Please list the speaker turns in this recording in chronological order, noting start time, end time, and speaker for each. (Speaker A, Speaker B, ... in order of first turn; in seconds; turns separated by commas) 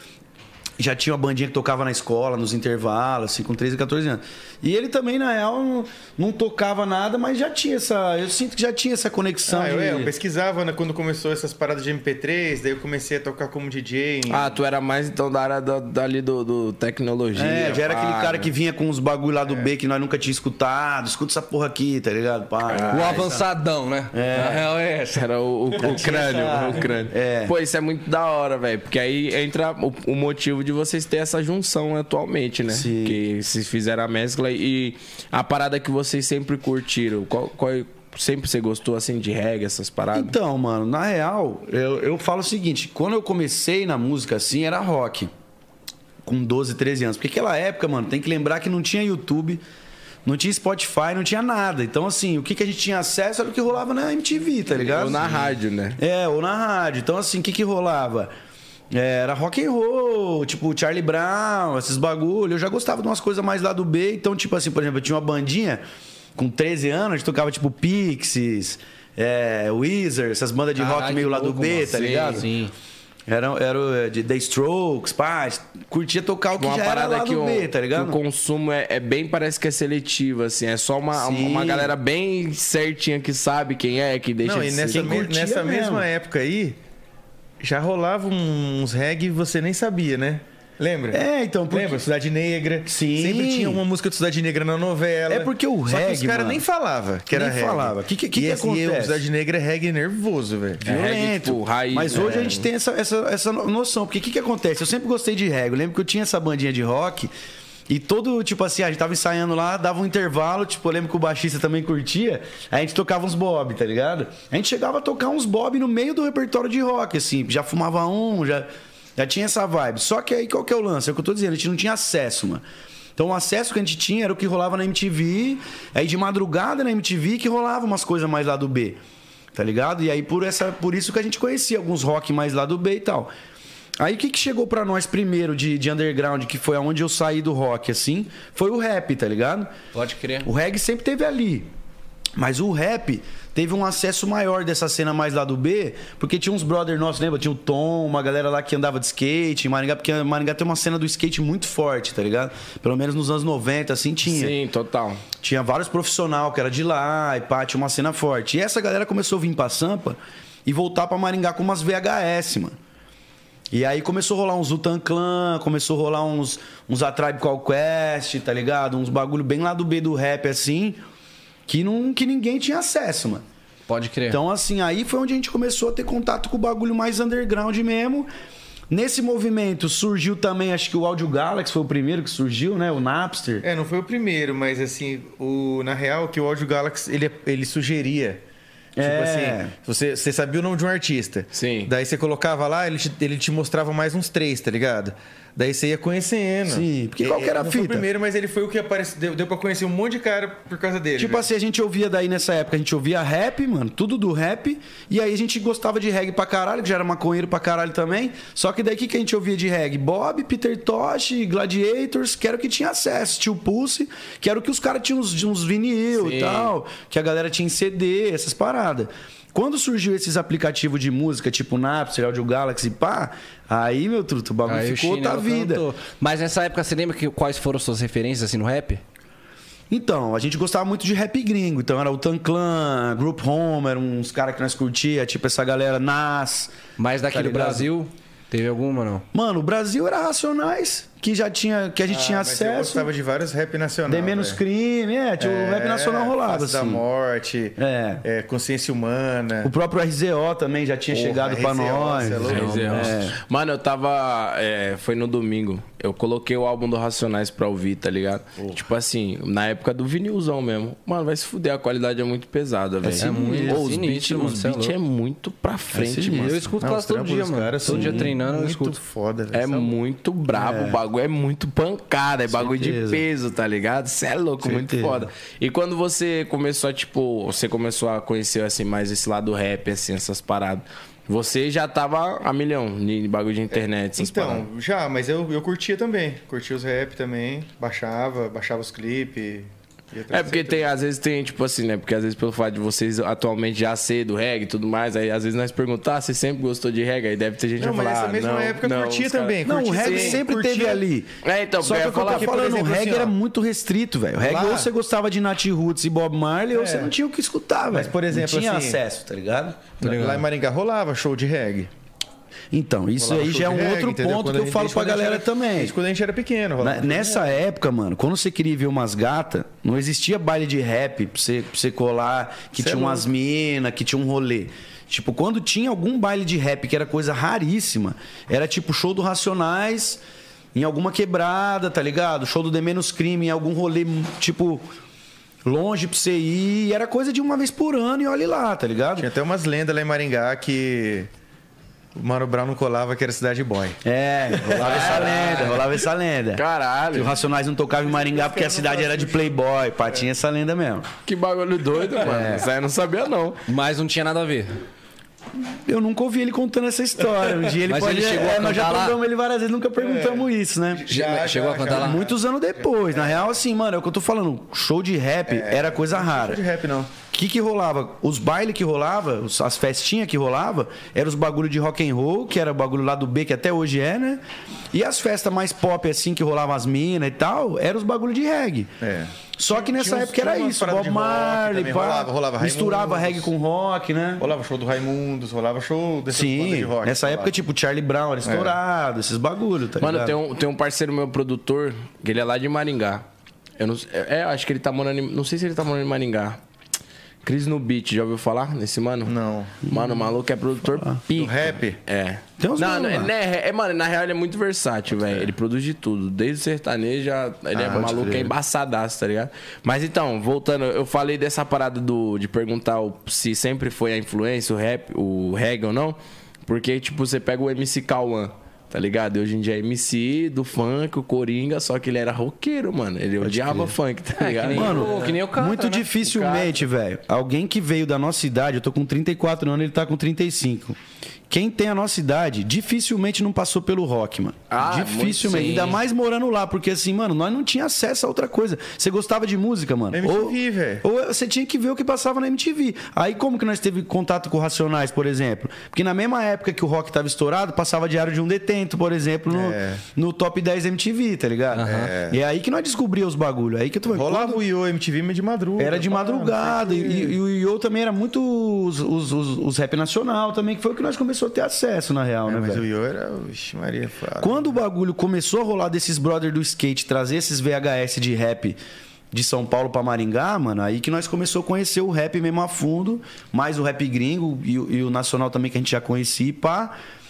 Speaker A: 0.8-10.1, Speaker B: 9.4-14.6, Speaker C: 14.3-18.5, Speaker A: 17.3-23.4, Speaker C: 22.7-23.4, Speaker D: 22.9-25.2, Speaker A: 24.1-24.6, Speaker C: 25.1-40.4, Speaker A: 25.8-27.5, Speaker A: 32.7-33.2, Speaker A: 40.1-45.3, Speaker A: 46.2-49.6, Speaker A: 50.2-58.3, Speaker C: 54.7-56.0, Speaker A: 58.9-65.8, Speaker A: 66.3-72.5, Speaker D: 70.8-72.7, Speaker C: 71.9-72.3, Speaker A: 73.3-78.2, Speaker C: 76.6-85.2, Speaker A: 81.1-81.9, Speaker B: 84.4-86.8, Speaker A: 84.9-86.1, Speaker B: 87.6-100.8, Speaker A: 91.1-92.0, Speaker A: 92.8-93.8, Speaker A: 95.3-96.6, Speaker A: 97.3-99.2, Speaker A: 100.8-107.3, Speaker C: 100.8-102.7, Speaker A: 107.9-122.6, Speaker A: 123.2-129.0, Speaker A: 129.5-133.3, Speaker A: 134.0-139.7, Speaker D: 139.9-140.5, Speaker A: 140.4-141.7, Speaker A: 142.3-154.5, Speaker C: 154.2-155.2, Speaker A: 155.4-162.8, Speaker A: 163.7-171.0, Speaker A: 171.7-173.4, Speaker D: 173.9-174.4, Speaker A: 174.3-178.3, Speaker A: 178.9-183.6, Speaker B: 183.6-188.4, Speaker A: 188.9-189.7, Speaker B: 189.0-201.4, Speaker C: 191.5-191.9, Speaker A: 196.7-198.1, Speaker A: 201.2-225.8, Speaker C: 216.2-216.7, Speaker D: 224.7-229.0, Speaker A: 229.9-236.8, Speaker D: 237.0-239.2, Speaker A: 237.3-237.9, Speaker A: 239.3-243.1, Speaker B: 242.1-244.6, Speaker A: 244.1-247.0, Speaker B: 245.4-249.7, Speaker A: 247.8-248.2, Speaker A: 249.6-253.4, Speaker B: 251.1-253.1, Speaker C: 252.4-266.6, Speaker A: 263.0-263.8, Speaker D: 263.2-264.9, Speaker A: 265.9-266.6, Speaker D: 266.3-269.0, Speaker B: 266.8-269.9, Speaker A: 267.9-268.3, Speaker C: 269.5-284.6, Speaker A: 270.5-271.0, Speaker A: 272.5-273.2, Speaker A: 274.6-275.3, Speaker B: 283.7-290.9, Speaker C: 290.3-300.4, Speaker B: 297.8-301.0, Speaker A: 299.6-310.0, Speaker C: 301.4-302.8, Speaker B: 302.0-303.3, Speaker B: 304.4-304.9, Speaker B: 306.7-307.1, Speaker B: 307.9-309.0, Speaker B: 310.0-311.9, Speaker D: 310.0-310.4, Speaker A: 312.7-315.9, Speaker B: 313.2-317.6, Speaker A: 316.8-330.2, Speaker B: 322.8-323.2, Speaker A: 330.7-334.8, Speaker A: 335.6-339.3, Speaker B: 339.2-341.3, Speaker B: 342.1-344.0, Speaker A: 344.0-351.1, Speaker B: 344.6-345.7, Speaker C: 344.7-345.9, Speaker C: 346.5-347.3, Speaker B: 347.9-349.6, Speaker C: 351.2-353.6, Speaker A: 352.2-352.6, Speaker D: 353.7-354.7, Speaker A: 355.9-361.1, Speaker D: 357.9-359.2, Speaker B: 360.0-362.4, Speaker D: 361.1-362.2, Speaker A: 361.9-366.6, Speaker B: 363.1-363.4, Speaker B: 365.5-367.1, Speaker A: 367.3-374.4, Speaker A: 374.9-378.9, Speaker B: 379.0-383.5, Speaker A: 379.6-384.4, Speaker B: 384.4-387.6, Speaker A: 386.3-390.4, Speaker B: 388.4-388.8, Speaker C: 390.0-393.2, Speaker C: 393.8-396.6, Speaker C: 397.4-425.3, Speaker B: 399.2-399.8, Speaker B: 401.3-402.0, Speaker A: 402.6-403.3, Speaker B: 407.7-408.2, Speaker A: 407.9-408.5, Speaker A: 423.4-423.9, Speaker D: 424.4-426.1, Speaker A: 424.7-431.0, Speaker C: 426.2-426.8, Speaker A: 431.5-454.6, Speaker C: 434.7-436.0, Speaker D: 435.5-435.9, Speaker B: 440.1-441.0, Speaker B: 449.5-450.0, Speaker D: 451.7-452.1, Speaker B: 451.9-452.4, Speaker B: 454.1-457.3, Speaker A: 455.8-462.8, Speaker B: 462.5-464.8, Speaker A: 464.4-468.8, Speaker A: 469.3-476.9